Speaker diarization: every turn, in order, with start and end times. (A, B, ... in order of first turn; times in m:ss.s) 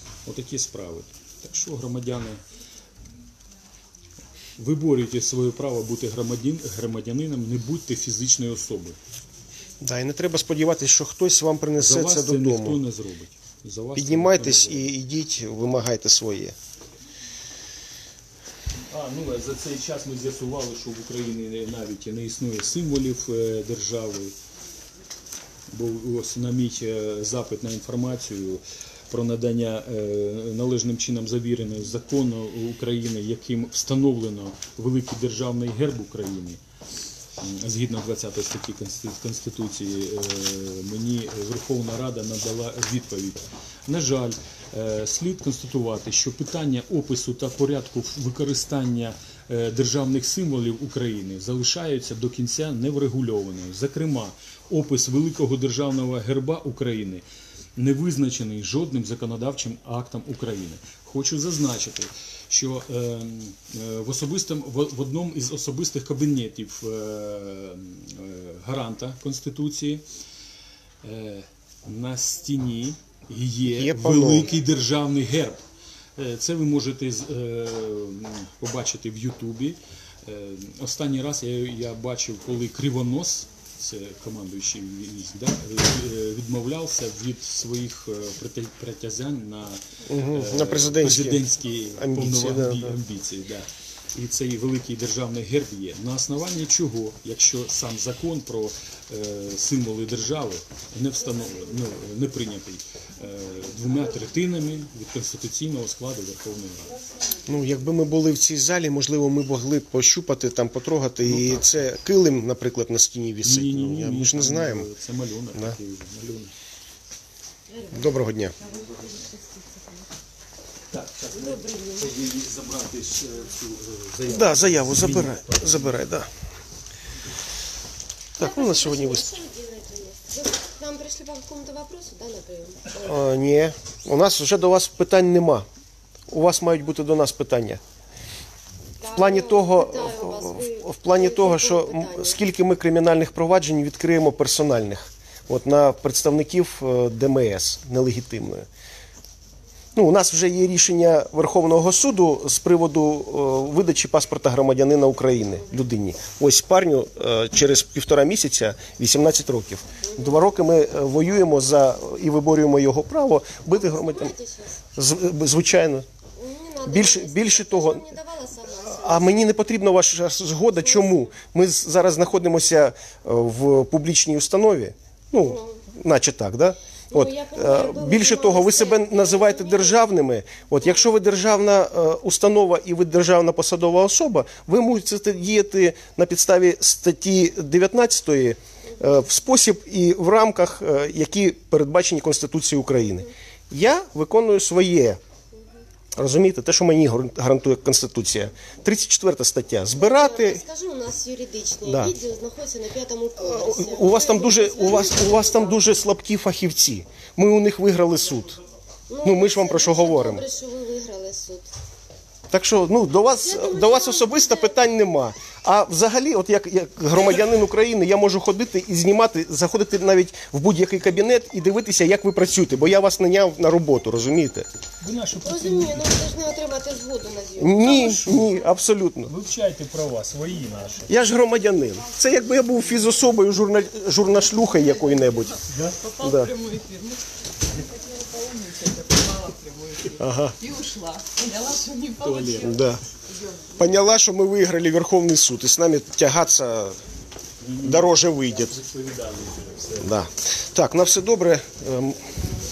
0:00.2-0:02.4 A
0:04.6-0:09.0 A
0:09.8-0:12.8 B
0:11.8-0:14.9 A
0:13.9-0:16.5 B
0:18.9-0:24.3 A
0:25.7-0:36.6 A
0:37.4-0:57.2 A
0:57.8-1:10.0 A
1:11.0-1:15.6 A
1:13.7-1:14.5 B
1:16.2-1:47.0 A
1:30.0-1:31.4 B
1:32.0-1:33.0 B
1:47.4-1:54.9 B
1:51.2-1:51.8 A
1:53.4-1:56.5 A
1:57.7-2:00.1 C
1:57.9-1:58.5 B
1:58.6-1:59.2 A
2:00.9-2:06.1 A
2:01.3-2:02.1 C
2:04.3-2:06.3 B
2:08.4-2:09.2 B
2:08.4-2:13.2 C
2:13.0-2:15.6 B
2:16.3-2:17.8 B
2:19.0-2:22.4 C
2:19.1-2:28.7 B
2:29.9-2:44.3 B
2:40.0-2:40.4 C
2:43.7-2:44.8 C
2:44.9-2:46.0 B
2:46.4-2:49.6 C
2:46.8-2:48.1 B
2:48.7-3:15.2 B
2:50.8-2:51.3 C
2:55.4-2:55.8 C
2:57.1-3:00.1 C
3:15.5-3:15.8 C
3:16.2-3:20.6 B
3:19.9-3:25.8 C
3:21.8-3:22.1 B
3:23.4-3:28.6 B
3:29.1-3:31.7 C
3:29.2-3:30.4 B
3:32.5-3:44.7 B
3:33.4-3:34.7 C
3:45.0-3:46.1 A
3:45.4-3:48.1 C
3:47.6-3:49.3 B
3:47.7-3:48.6 A
3:49.2-3:51.1 A
3:51.1-3:55.6 B
3:52.2-3:53.2 D
3:54.7-4:03.9 D
3:55.7-3:56.0 A
3:56.2-3:56.5 B
4:00.2-4:00.6 B
4:02.2-4:02.8 A
4:02.6-4:03.0 B
4:03.8-4:07.0 B
4:07.6-4:10.2 A
4:07.8-4:08.7 B
4:10.0-4:12.2 B